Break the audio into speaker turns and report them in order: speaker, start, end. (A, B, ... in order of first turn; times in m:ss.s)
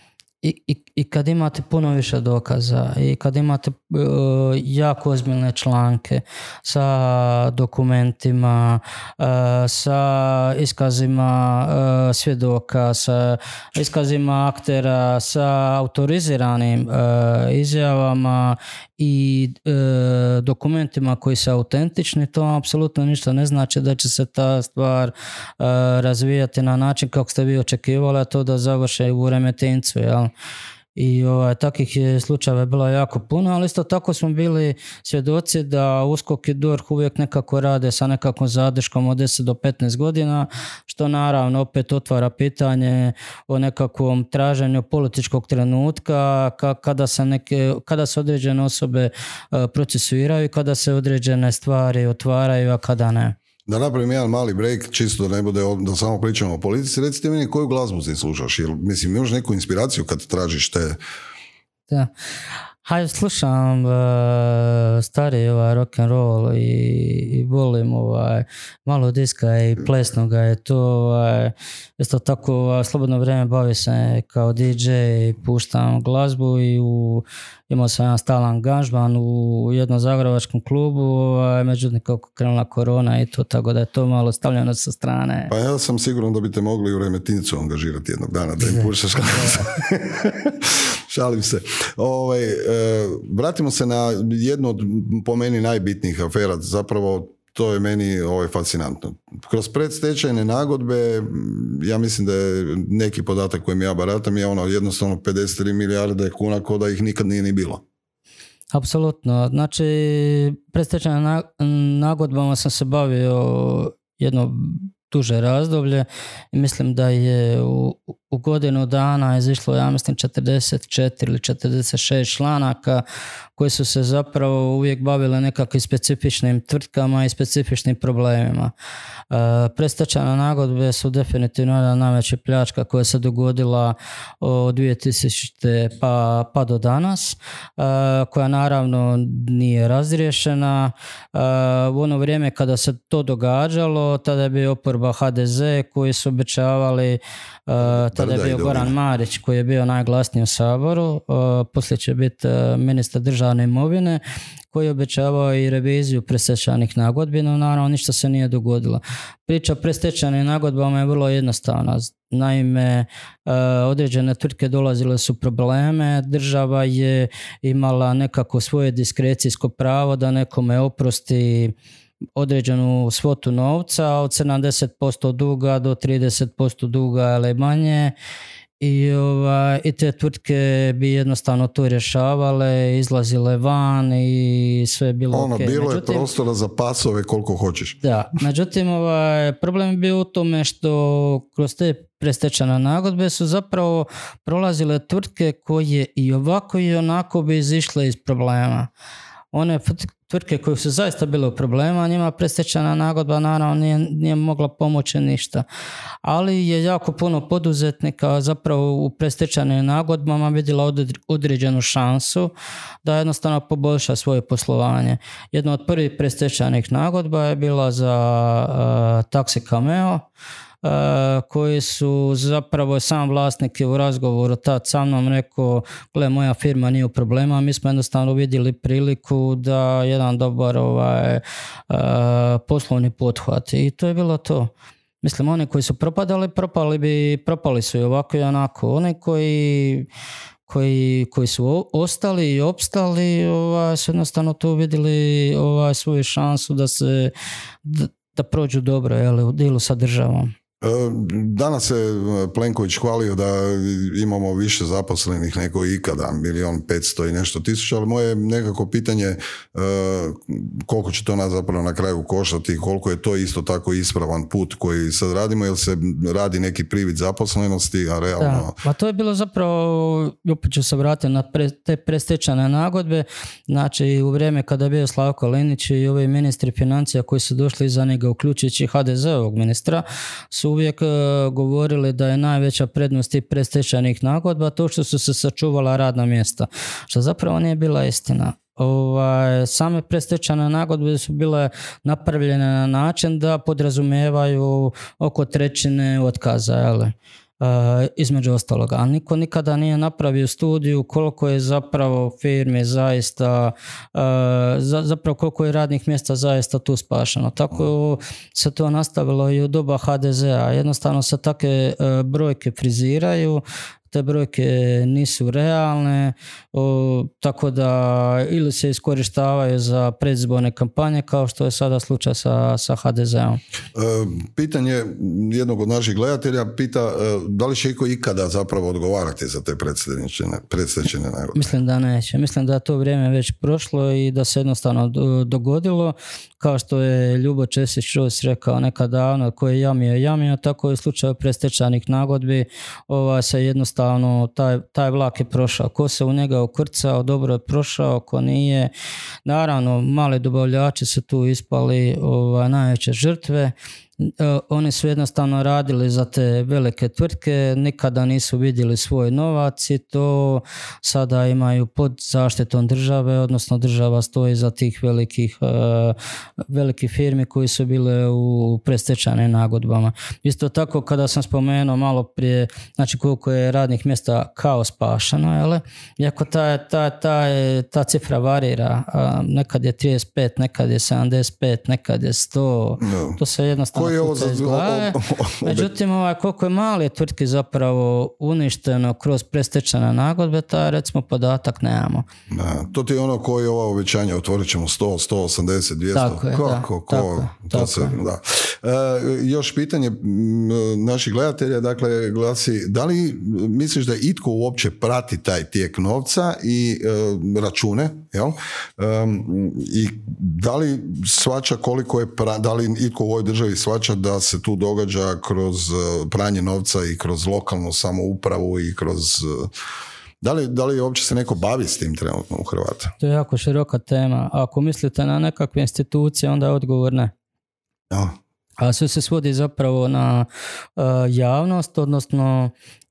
0:00.4-0:30.3 A
0:31.0-0:53.4 A
0:53.7-1:01.0 B
1:02.8-1:25.5 A
1:25.5-1:47.8 B
1:48.7-2:03.0 A
2:03.6-2:08.7 A
2:09.3-2:51.7 A
2:27.8-2:28.9 B
2:52.4-2:58.1 A
2:58.8-3:06.3 A
3:05.3-3:08.0 B
3:08.0-3:18.9 A
3:19.5-3:25.6 A
3:26.2-3:32.5 A
3:33.0-3:40.2 A
3:40.8-4:00.1 A
4:00.7-4:07.3 A
4:07.8-4:10.5 A
4:10.8-4:28.7 B
4:28.4-5:23.6 A
5:23.9-5:31.6 B
5:31.5-5:48.9 A
5:49.4-6:06.2 A
6:06.7-6:32.3 A
6:23.0-6:23.4 B
6:23.9-6:25.9 B
6:32.5-6:59.7 B
6:36.1-6:38.1 A
7:00.4-7:03.1 B
7:03.2-7:07.3 A
7:08.1-7:08.4 B
7:08.8-7:12.7 A